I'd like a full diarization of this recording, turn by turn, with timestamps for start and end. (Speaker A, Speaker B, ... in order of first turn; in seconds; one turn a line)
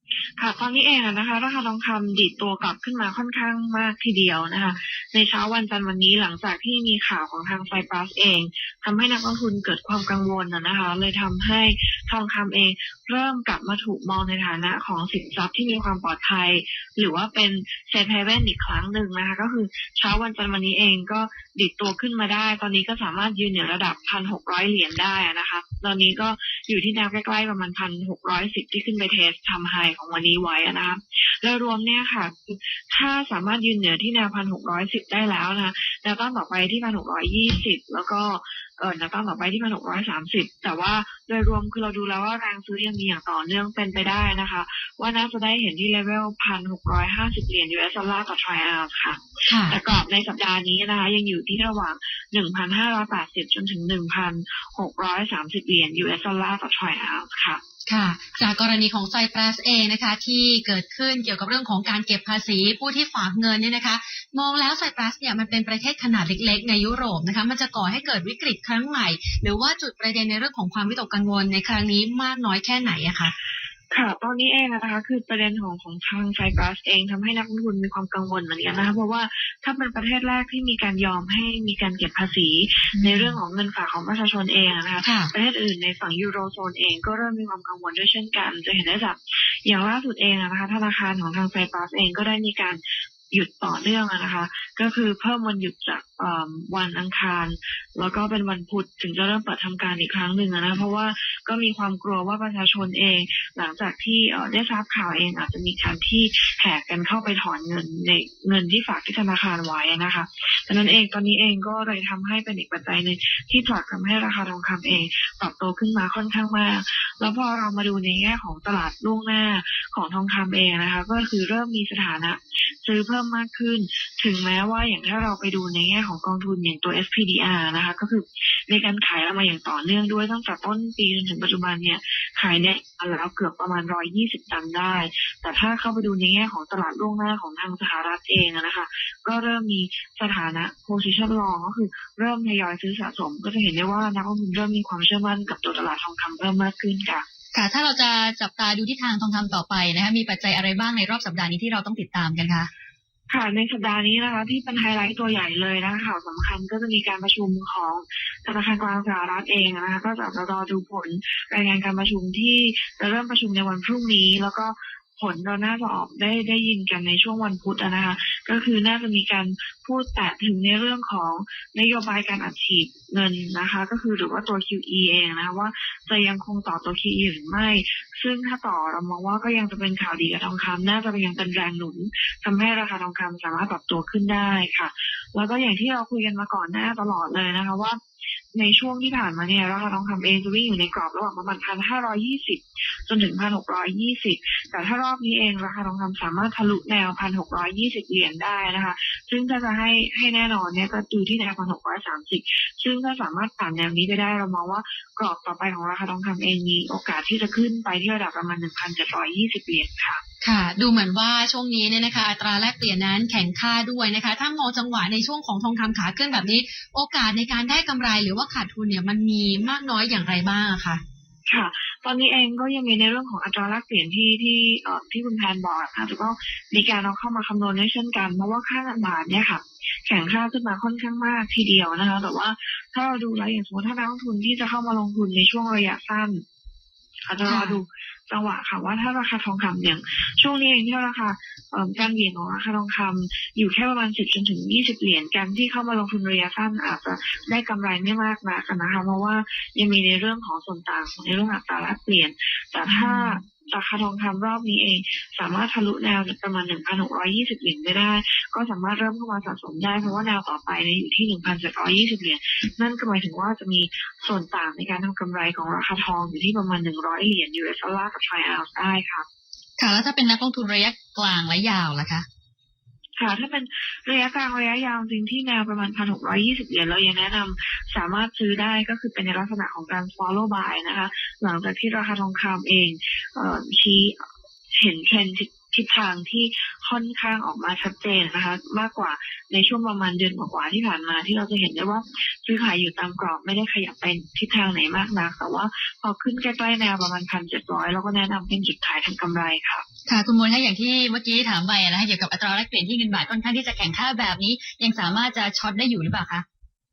Speaker A: 0.4-57.6
Speaker B: 49.5-49.8
Speaker B: 57.9-73.3
Speaker A: 73.9-147.2
Speaker B: 82.9-83.4
Speaker B: 85.0-85.3
Speaker C: 147.5-152.7
Speaker A: 153.3-188.0
Speaker A: 188.5-210.2
Speaker B: 210.4-221.0
Speaker A: 221.5-236.4
Speaker A: 237.3-269.2
Speaker B: 237.4-237.8
Speaker B: 252.9-253.4
Speaker C: 269.8-272.2
Speaker A: 273.2-299.8
Speaker C: 300.1-306.4